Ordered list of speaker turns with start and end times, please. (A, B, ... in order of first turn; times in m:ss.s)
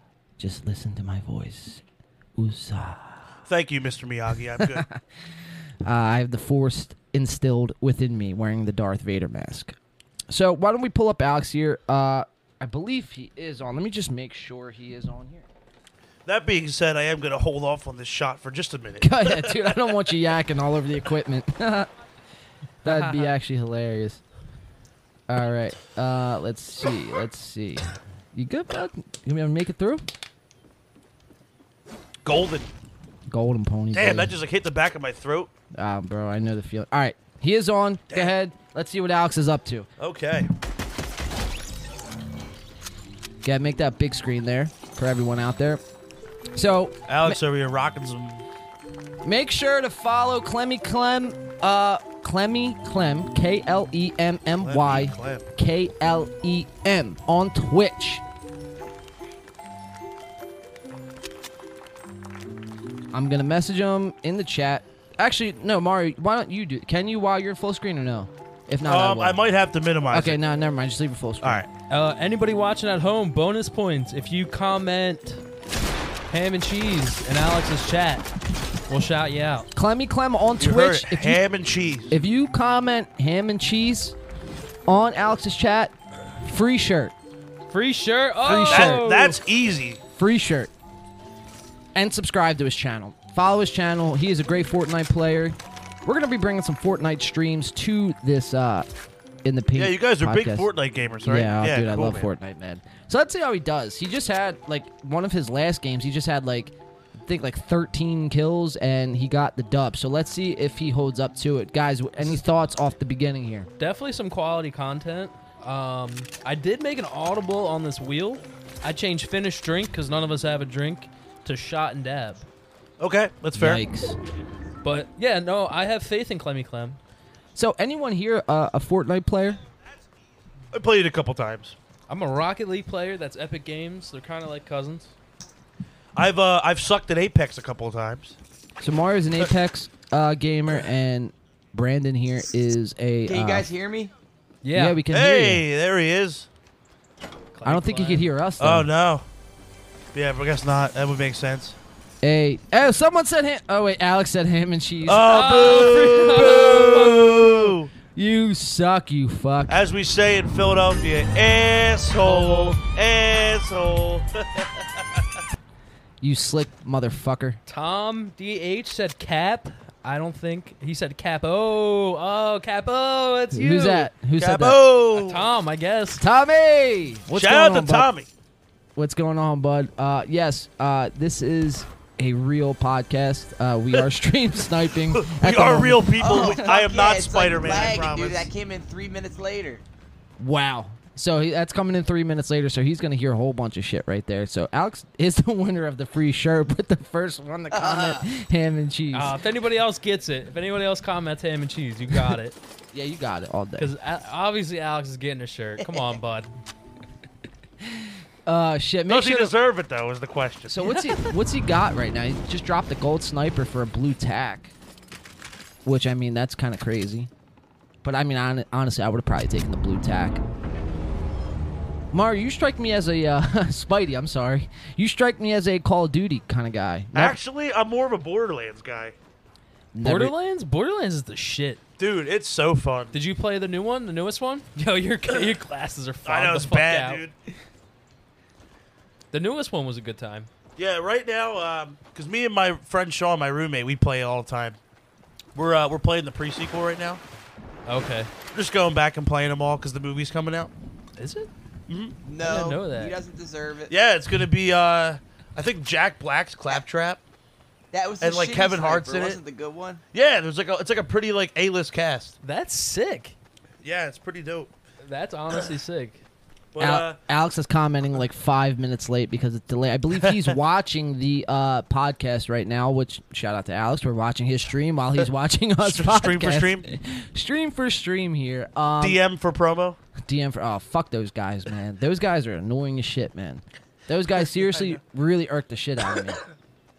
0:00.4-0:01.8 A
0:02.4-0:03.2 A
0:03.5-0:04.8 B
0:04.6-0:05.0 A
0:05.8-0:09.8 A
0:10.3-0:15.5 A
0:16.3-0:20.0 B
0:19.0-0:21.9 A
0:22.8-0:24.2 A
0:22.8-0:23.4 C
0:25.3-0:30.1 A
0:32.2-0:32.7 B
0:33.3-0:34.4 A
0:33.9-0:35.5 B
0:35.7-0:39.9 A
0:38.1-0:38.3 B
0:40.0-0:40.5 B
0:43.4-0:45.8 A
0:46.5-0:47.4 A
0:47.1-0:48.4 B
0:49.2-0:58.2 A
0:54.6-0:55.5 B
1:03.1-1:09.4 A
1:08.9-1:10.4 B
1:10.1-1:11.6 A
1:11.4-1:11.7 B
1:11.9-1:15.4 C
1:16.3-1:18.3 C
1:18.9-1:19.7 C
1:19.8-1:21.4 A
1:20.6-1:22.2 B
1:22.1-1:24.2 A
1:24.9-1:27.2 A
1:27.7-1:29.4 C
1:28.4-1:29.2 A
1:28.4-1:30.0 B
1:30.2-1:30.7 A
1:32.0-1:38.9 A
1:39.4-1:40.7 A
1:39.8-1:42.3 B
1:41.2-1:53.7 A
1:53.8-2:02.5 C
2:03.0-2:03.8 B
2:03.5-2:04.2 A
2:04.8-2:07.0 C
2:07.6-2:09.6 A
2:10.7-2:11.8 B
2:12.1-2:15.1 C
2:16.2-2:18.4 B
2:18.8-2:23.7 A
2:23.3-2:24.1 D
2:24.6-2:25.0 C
2:24.7-2:25.6 A
2:25.1-2:26.5 B
2:27.5-2:28.3 C
2:27.6-2:28.9 A
2:28.6-2:29.3 B
2:30.1-2:31.8 B
2:32.2-2:39.8 A
2:35.0-2:37.9 B
2:35.2-2:37.6 C
2:39.7-2:45.2 B
2:42.2-2:42.8 C
2:46.2-2:47.6 A
2:47.7-2:54.1 C
2:53.5-2:54.8 A
2:54.4-2:55.4 B
2:55.2-2:56.2 C
2:56.2-2:58.1 A
2:57.3-2:58.3 B
2:59.0-3:06.6 A
3:05.1-3:08.5 B
3:06.2-3:09.8 D
3:10.4-3:19.4 A
3:17.7-3:18.3 D
3:19.1-3:22.6 C
3:22.9-3:23.9 A
3:23.8-3:26.5 C
3:27.8-3:29.6 A
3:29.1-3:30.9 B
3:30.7-3:34.7 A
3:35.8-3:37.3 A
3:38.0-3:40.4 A
3:42.1-3:47.4 A
3:47.1-3:49.2 B
3:49.9-3:50.3 A
3:50.0-3:51.8 C
3:52.0-3:53.1 B
3:53.1-3:57.2 C
3:56.3-3:57.3 B
3:59.3-4:00.5 C
4:00.8-4:04.8 B
4:05.6-4:07.2 B
4:07.9-4:08.3 C
4:08.5-4:10.7 B
4:11.2-4:11.5 C
4:11.9-4:12.2 B
4:12.2-4:13.9 D
4:12.4-4:13.2 C
4:13.9-4:17.2 B
4:17.9-4:20.0 D
4:18.2-4:19.4 B
4:20.1-4:22.4 B
4:22.4-4:23.4 C
4:23.8-4:24.7 B
4:25.0-4:26.2 C
4:26.7-4:27.2 B
4:26.8-4:39.2 A
4:35.8-4:36.9 B
4:39.0-4:40.0 B
4:40.2-4:46.4 A